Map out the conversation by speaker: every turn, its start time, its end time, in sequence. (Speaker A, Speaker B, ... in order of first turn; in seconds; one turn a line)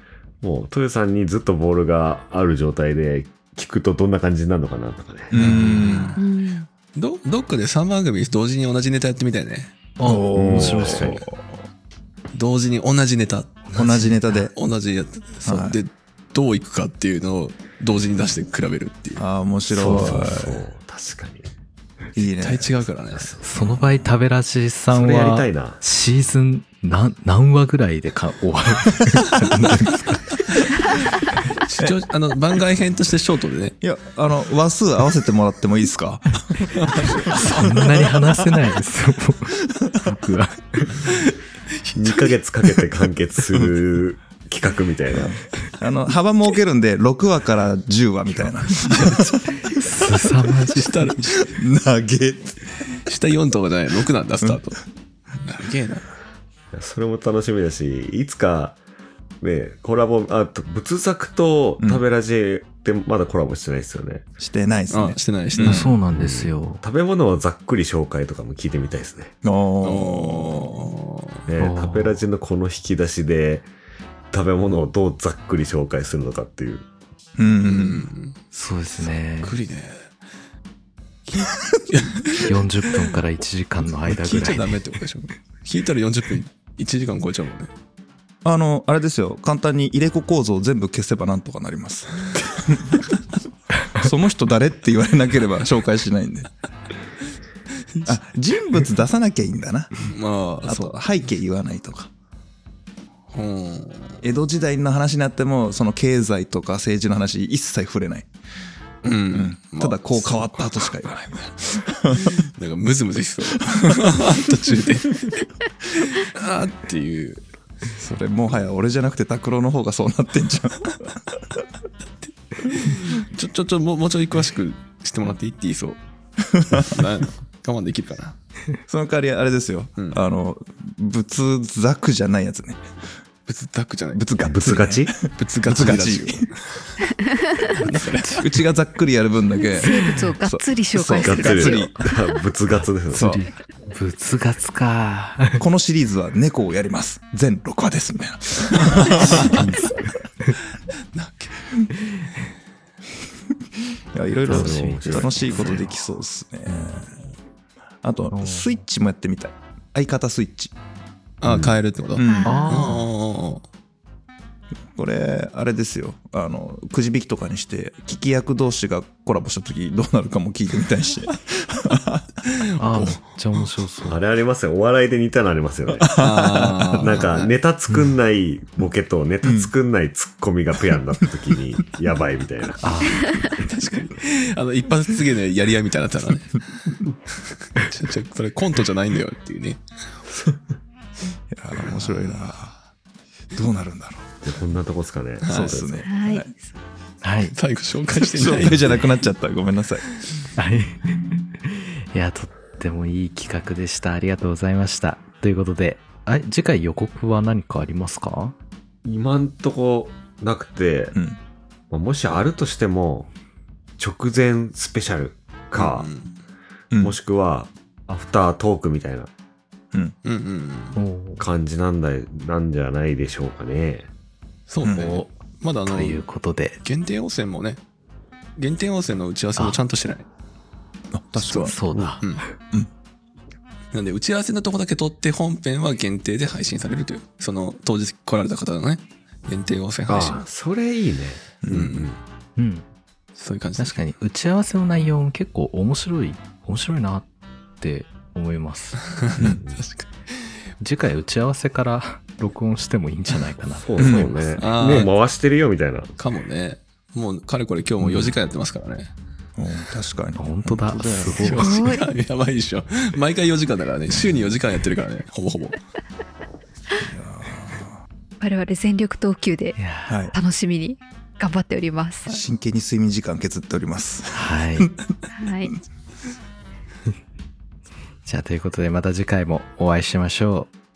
Speaker A: 0.4-5.3
Speaker B: 5.3-6.2
Speaker C: 5.3-6.2
Speaker D: 5.4-6.1
Speaker E: 6.2-6.7
Speaker C: 6.8-9.8
Speaker D: 10.0-11.2
Speaker B: 10.0-11.5
Speaker A: 10.3-11.2
Speaker C: 12.3-13.7
Speaker D: 13.7-14.3
Speaker B: 13.7-14.5
Speaker C: 14.5-19.2
Speaker B: 15.4-15.8
Speaker B: 19.2-20.6
Speaker D: 19.7-20.3
Speaker A: 19.8-21.5
Speaker B: 22.1-22.8
Speaker C: 22.3-23.3
Speaker A: 23.1-23.9
Speaker D: 23.4-30.2
Speaker A: 24.9-25.8
Speaker C: 31.6-33.8
Speaker B: 33.8-37.8
Speaker D: 37.3-41.0
Speaker C: 41.9-42.2
Speaker A: 41.9-45.4
Speaker B: 45.1-49.4
Speaker C: 48.8-49.8
Speaker D: 49.8-51.1
Speaker C: 50.5-51.5
Speaker B: 51.4-52.6
Speaker C: 53.0-54.8
Speaker C: 55.4-56.1
Speaker A: 56.7-58.8
Speaker A: 59.4-64.2
Speaker B: 64.4-65.9
Speaker C: 64.9-65.9
Speaker D: 65.6-66.8
Speaker A: 65.7-69.3
Speaker B: 69.4-70.9
Speaker C: 69.8-71.4
Speaker A: 71.5-73.7
Speaker D: 71.6-72.2
Speaker A: 74.3-76.8
Speaker B: 77.4-78.1
Speaker C: 77.6-78.4
Speaker D: 78.5-79.5
Speaker C: 79.4-80.1
Speaker C: 81.3-82.5
Speaker B: 81.5-81.8
Speaker D: 82.4-84.7
Speaker C: 84.0-87.7
Speaker B: 88.4-93.0
Speaker B: 93.9-96.5
Speaker B: 98.0-100.1
Speaker C: 100.1-101.0
Speaker B: 100.6-102.1
Speaker C: 103.3-104.2
Speaker B: 104.2-108.3
Speaker C: 109.0-110.8
Speaker B: 109.1-112.5
Speaker C: 112.4-117.5
Speaker B: 118.0-121.0
Speaker C: 122.6-126.0
Speaker B: 126.4-127.0
Speaker C: 126.7-128.3
Speaker B: 128.9-132.9
Speaker C: 133.5-134.2
Speaker B: 134.1-136.5
Speaker A: 134.4-135.1
Speaker C: 135.3-136.9
Speaker E: 137.2-137.7
Speaker C: 137.7-138.6
Speaker B: 138.3-141.9
Speaker E: 139.7-142.1
Speaker A: 141.2-143.4
Speaker B: 143.1-143.4
Speaker D: 143.1-145.6
Speaker B: 145.6-149.6
Speaker C: 148.9-149.4
Speaker D: 149.4-150.6
Speaker C: 151.1-151.6
Speaker B: 154.1-157.2
Speaker D: 154.4-155.9
Speaker A: 154.5-155.5
Speaker B: 158.0-160.7
Speaker D: 158.3-158.8
Speaker C: 161.4-163.6
Speaker A: 161.4-161.7
Speaker B: 162.1-162.6
Speaker E: 162.2-162.9
Speaker D: 162.4-163.1
Speaker B: 164.9-172.3
Speaker C: 172.7-173.2
Speaker D: 172.8-174.2
Speaker A: 174.1-176.2
Speaker B: 175.9-177.1
Speaker C: 176.2-177.5
Speaker A: 176.9-182.8
Speaker D: 177.9-178.1
Speaker B: 179.4-179.7
Speaker D: 182.8-183.4
Speaker C: 183.5-187.0
Speaker C: 187.7-189.8
Speaker B: 191.5-192.7
Speaker C: 192.3-192.6
Speaker B: 193.5-194.3
Speaker A: 194.4-196.0
Speaker C: 195.4-195.8
Speaker B: 195.4-196.5
Speaker E: 196.0-196.6
Speaker D: 197.2-197.5
Speaker C: 197.5-199.0
Speaker B: 198.2-200.1
Speaker D: 200.6-208.5
Speaker A: 209.0-211.2
Speaker A: 211.9-213.3
Speaker A: 214.0-216.1
Speaker C: 215.7-216.3
Speaker B: 216.9-217.2
Speaker A: 217.0-219.3
Speaker C: 220.2-221.0
Speaker D: 220.9-221.4
Speaker A: 221.4-224.1
Speaker C: 224.7-226.2
Speaker B: 224.8-225.2
Speaker D: 224.9-225.3
Speaker D: 225.8-226.8
Speaker C: 226.8-227.8
Speaker C: 228.6-230.3
Speaker B: 231.1-232.1
Speaker C: 231.5-232.4
Speaker D: 231.6-232.5
Speaker C: 233.9-240.4
Speaker A: 240.1-242.2
Speaker B: 241.6-241.9
Speaker C: 241.7-242.1
Speaker D: 242.6-242.8
Speaker C: 243.3-244.1
Speaker D: 243.8-247.2
Speaker D: 247.8-249.0
Speaker C: 249.3-250.1
Speaker D: 250.8-254.5
Speaker A: 253.8-256.1
Speaker B: 254.0-254.3
Speaker C: 254.6-255.1
Speaker C: 256.2-259.1
Speaker B: 259.6-261.7
Speaker D: 260.4-261.9
Speaker C: 261.4-265.8
Speaker E: 261.6-262.1
Speaker B: 267.0-268.0
Speaker E: 268.4-269.8
Speaker D: 269.8-270.1
Speaker B: 270.1-270.3
Speaker E: 270.3-272.3
Speaker B: 272.3-275.1
Speaker D: 274.3-274.9
Speaker E: 275.3-275.8
Speaker D: 278.2-280.7